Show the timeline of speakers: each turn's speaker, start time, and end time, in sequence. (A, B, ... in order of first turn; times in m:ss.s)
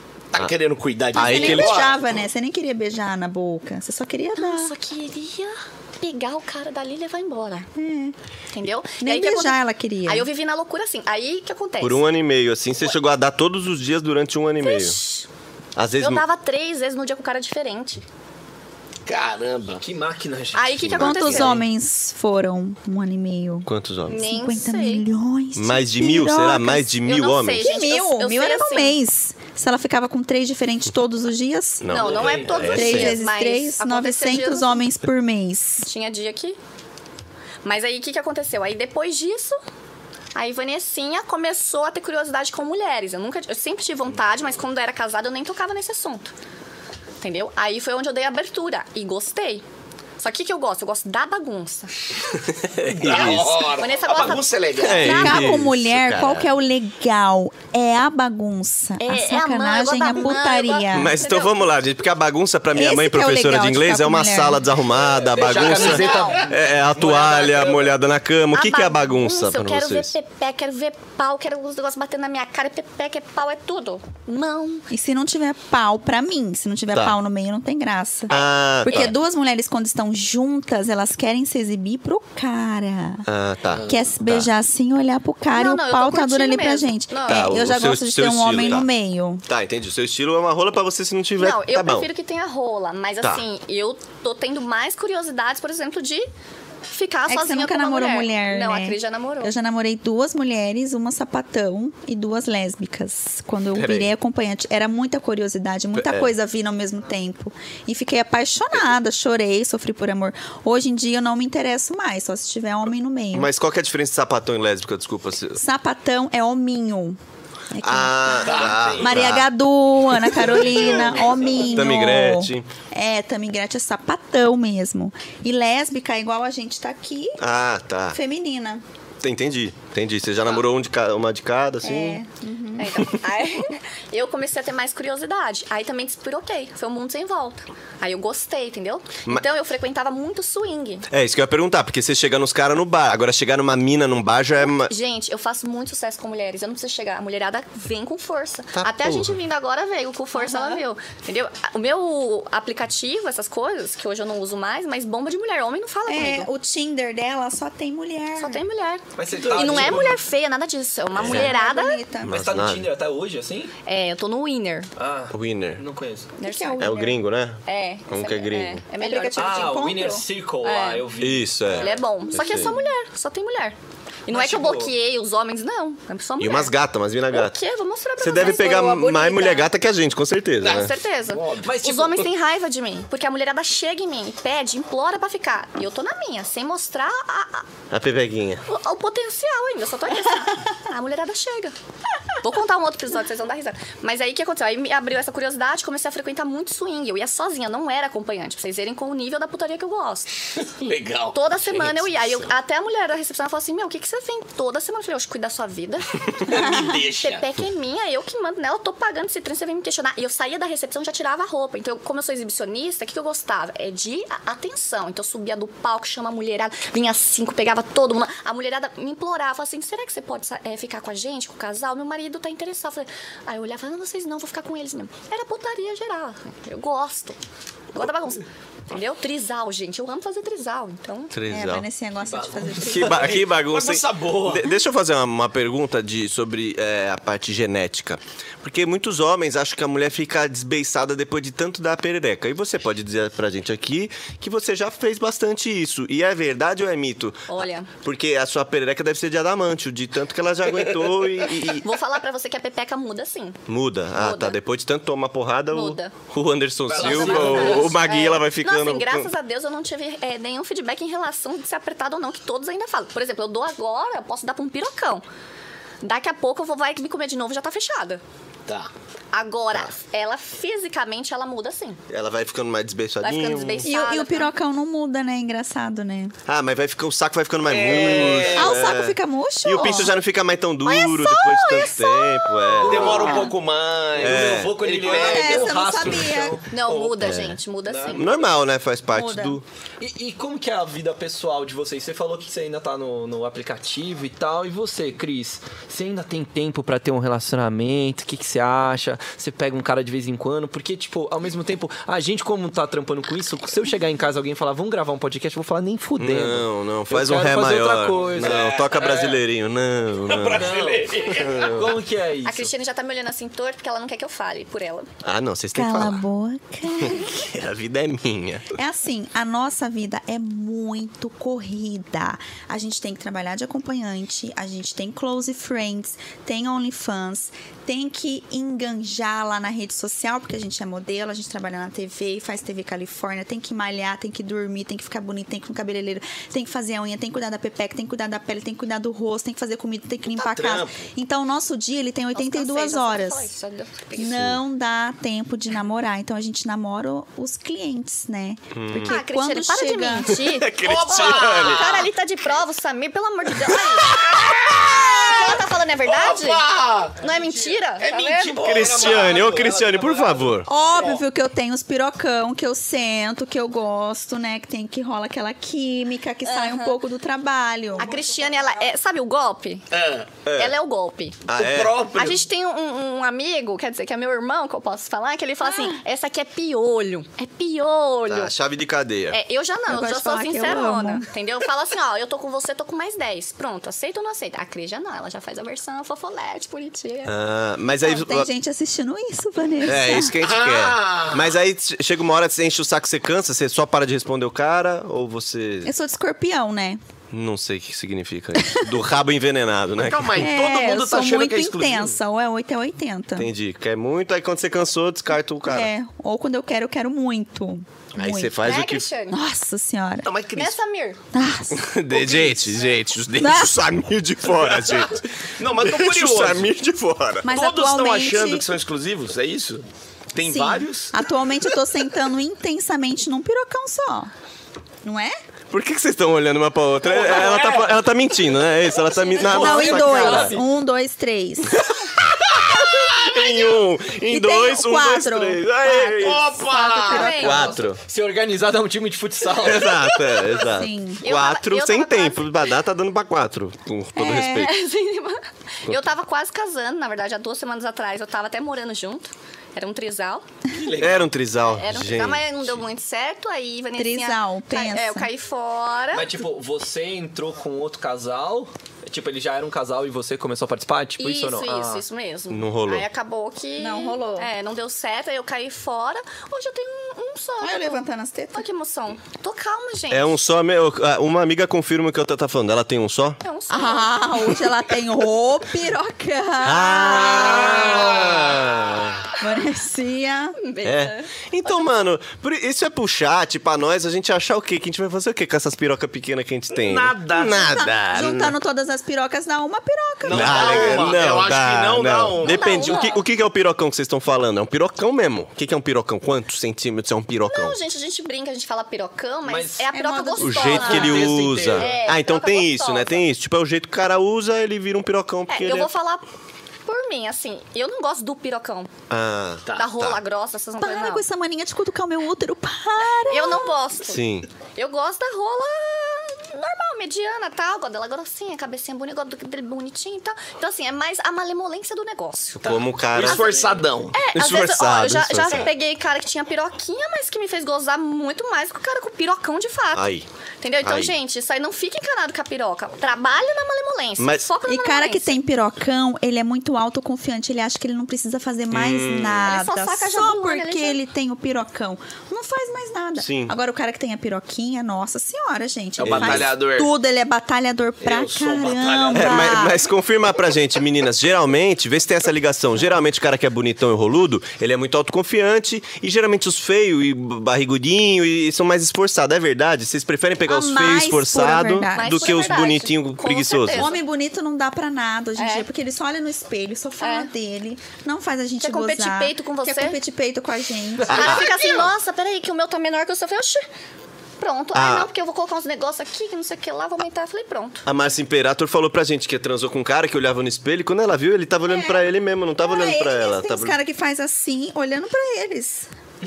0:00.3-0:01.9 A
0:01.1-0:01.8 B
0:01.1-0:04.7 C
0:04.4-0:07.7 D
0:07.7-0:08.1 C
0:08.5-0:12.0 D
0:09.0-0:10.3 C
0:11.8-0:15.0 B
0:14.6-0:15.3 D
0:15.8-0:16.2 B
0:16.0-0:18.0 D
0:19.0-0:19.8 A
0:19.8-0:21.1 E
0:20.5-0:21.6 D
0:20.8-0:21.6 B
0:21.0-0:26.9 C
0:23.6-0:24.2 B
0:24.1-0:25.0 D
0:25.5-0:27.6 B
0:27.0-0:29.0 D
0:27.6-0:32.0 C
0:31.8-0:33.2 B
0:31.9-0:34.8 D
0:32.0-0:32.7 E
0:32.7-0:35.9 C
0:35.8-0:36.6 D
0:37.6-0:39.6 D
0:40.3-0:46.3 D
0:47.2-0:49.6 D
0:50.2-0:51.9 D
0:52.4-0:53.7 B
0:52.9-0:55.5 A
0:53.2-0:55.6 D
0:54.8-0:56.5 B
0:55.0-1:01.2 C
0:59.0-1:01.6 D
1:00.9-1:10.1 B
1:02.7-1:04.7 C
1:04.9-1:07.8 E
1:05.4-1:06.6 A
1:05.6-1:06.5 D
1:08.5-1:14.9 D
1:14.9-1:23.2 C
1:18.3-1:19.1 B
1:18.9-1:19.1 D
1:23.2-1:24.5 B
1:23.8-1:29.4 C
1:25.5-1:27.6 D
1:27.2-1:28.9 B
1:29.5-1:32.1 B
1:31.4-1:36.3 D
1:36.9-1:39.5 D
1:37.3-1:53.5 C
1:43.8-1:44.1 B
1:46.0-1:46.3 B
1:53.3-1:55.6 B
1:55.6-1:57.2 C
1:57.7-2:07.4 C
1:57.8-1:59.5 B
1:58.4-1:59.4 A
2:00.4-2:01.6 A
2:01.6-2:02.7 B
2:07.4-2:08.2 B
2:08.1-2:08.8 C
2:09.2-2:12.2 B
2:11.8-2:13.1 C
2:12.8-2:21.0 D
2:21.1-2:24.9 B
2:24.6-2:36.5 D
2:28.7-2:29.4 B
2:30.3-2:30.8 C
2:36.0-2:38.6 C
2:38.4-2:42.0 D
2:39.2-2:40.2 E
2:39.6-2:40.0 A
2:41.2-2:41.5 B
2:41.2-2:42.4 C
2:42.2-2:42.9 B
2:42.2-2:43.7 E
2:43.9-2:44.9 D
2:45.0-2:46.3 E
2:45.3-2:45.8 B
2:46.4-2:49.9 D
2:46.4-2:47.2 C
2:46.8-2:48.8 B
2:49.0-2:50.2 C
2:49.4-2:51.9 E
2:50.6-2:51.0 D
2:51.2-2:52.7 B
2:51.7-2:56.7 D
2:54.3-2:54.9 E
2:56.4-2:57.6 B
2:57.3-2:59.7 D
2:58.2-3:00.9 B
3:00.6-3:01.7 A
3:00.6-3:07.7 D
3:01.6-3:02.3 E
3:07.9-3:08.6 B
3:08.7-3:11.7 D
3:12.4-3:20.3 D
3:20.6-3:22.4 A
3:21.3-3:47.4 D
3:26.4-3:27.4 A
3:47.9-3:51.3 D
3:51.3-3:51.9 B
3:51.5-3:53.3 C
3:52.3-3:53.4 E
3:52.9-4:11.9 B
3:53.1-3:54.7 A
4:07.5-4:07.9 D
4:11.8-4:13.6 D
4:13.7-4:19.3 B
4:14.2-4:14.6 D
4:15.7-4:16.2 D
4:16.9-4:18.0 E
4:16.9-4:17.5 A
4:17.1-4:25.2 D
4:26.0-4:28.2 D
4:29.3-4:32.0 D
4:32.1-4:33.9 B
4:33.2-4:34.5 D
4:33.8-4:36.3 C
4:36.5-4:43.4 B
4:37.7-4:38.9 A
4:38.5-4:40.1 C
4:40.9-4:42.9 D
4:41.0-4:41.8 C
4:42.8-4:43.5 E
4:42.9-4:46.2 A
4:43.1-4:43.5 C
4:44.1-4:48.4 E
4:44.2-4:44.8 B
4:45.0-4:46.6 C
4:46.7-4:48.3 D
4:47.2-4:47.6 B
4:48.1-4:49.6 B
4:49.1-4:49.6 C
4:50.0-5:09.4 E
5:06.2-5:10.8 B
5:08.4-5:09.4 A
5:10.2-5:11.8 A
5:10.5-5:12.7 E
5:11.3-5:11.8 B
5:12.4-5:15.1 D
5:15.2-5:16.2 B
5:15.7-5:17.5 C
5:17.0-5:18.7 B
5:18.7-5:43.5 C
5:40.3-5:41.0 A
5:42.3-5:44.5 D
5:44.2-5:50.4 C
5:44.2-5:44.6 B
5:48.7-5:49.2 B
5:49.0-5:58.8 D
5:50.3-5:52.0 B
5:50.8-5:52.0 A
5:54.0-5:54.8 B
5:54.2-5:57.3 A
5:58.0-6:00.4 A
5:58.6-6:00.7 B
5:58.7-6:00.4 E
6:00.7-6:08.1 C
6:00.9-6:01.2 A
6:06.4-6:07.0 D
6:08.0-6:09.9 D
6:09.9-6:10.4 A
6:10.4-6:10.7 B
6:10.5-6:11.4 D
6:11.4-6:12.1 B
6:11.5-6:12.4 A
6:12.1-6:18.5 D
6:18.3-6:19.4 B
6:19.3-6:27.3 D
6:19.9-6:21.3 C
6:27.2-6:28.5 B
6:28.0-6:30.3 C
6:29.8-6:35.9 B
6:30.4-6:31.5 A
6:35.8-6:37.0 C
6:37.3-6:40.5 B
6:38.6-6:38.9 C
6:40.0-6:42.2 A
6:40.4-6:43.5 C
6:43.4-6:45.9 B
6:45.7-6:48.6 C
6:48.2-6:49.1 B
6:48.6-6:49.4 D
6:49.3-6:50.3 C
6:50.3-6:50.7 A
6:50.5-6:51.2 D
6:51.3-6:52.8 C
6:51.7-6:57.5 B
6:53.4-6:53.8 C
6:54.6-6:55.1 A
6:55.6-6:56.7 A
6:57.4-6:58.7 C
6:57.4-7:01.2 A
7:00.4-7:04.3 C
7:05.0-7:05.4 C
7:05.7-7:10.6 B
7:07.0-7:08.0 A
7:09.4-7:11.9 C
7:09.4-7:10.6 E
7:12.5-7:16.5 B
7:14.3-7:17.8 C
7:15.9-7:17.7 D
7:16.1-7:17.4 A
7:17.3-7:18.0 B
7:17.9-7:20.1 E
7:19.6-7:24.7 B
7:20.6-7:21.2 C
7:21.2-7:22.6 D
7:24.2-7:24.7 C
7:24.4-7:30.4 D
7:30.7-7:31.3 A
7:31.0-7:32.5 B
7:31.6-7:36.3 D
7:34.0-7:35.3 C
7:36.1-7:42.0 E
7:41.2-7:50.4 D
7:42.5-7:43.0 B
7:43.8-7:44.5 C
7:47.6-7:48.7 C
7:50.1-7:53.4 B
7:53.4-7:54.6 D
7:53.7-7:58.2 C
7:56.6-7:59.2 B
7:57.4-7:59.1 A
7:59.4-8:00.6 C
8:00.6-8:01.9 D
8:00.8-8:08.6 B
8:06.7-8:07.8 A
8:07.5-8:11.1 C
8:10.2-8:12.8 A
8:10.2-8:17.8 B
8:12.4-8:13.2 D
8:12.9-8:13.1 E
8:17.5-8:23.2 D
8:19.4-8:19.9 E
8:19.9-8:21.2 C
8:20.4-8:25.9 B
8:20.8-8:21.9 E
8:25.5-8:26.2 D
8:26.9-8:28.9 D
8:29.1-8:30.2 B
8:29.7-8:31.2 D
8:30.8-8:33.7 C
8:33.3-8:42.6 D
8:34.0-8:34.5 B
8:42.6-8:43.5 B
8:42.6-8:44.2 A
8:43.2-8:50.1 D
8:44.3-8:45.7 B
8:49.9-8:50.2 B
8:50.6-8:55.4 D
8:50.8-8:51.1 B
8:54.2-8:54.5 B
8:54.7-9:09.8 C
8:58.7-8:59.5 B
8:59.4-9:01.0 D
9:03.2-9:03.5 B
9:06.0-9:06.6 B
9:06.0-9:06.9 A
9:08.0-9:09.7 A
9:09.1-9:23.9 B
9:20.5-9:22.4 C
9:21.9-9:24.0 D
9:23.7-9:31.5 C
9:25.4-9:25.7 D
9:27.0-9:27.3 D
9:28.6-9:30.0 D
9:31.1-9:31.5 B
9:31.1-9:33.6 D
9:34.4-9:37.8 D
9:34.7-9:35.1 B
9:37.8-9:43.8 B
9:41.7-9:42.0 C
9:42.6-9:45.9 C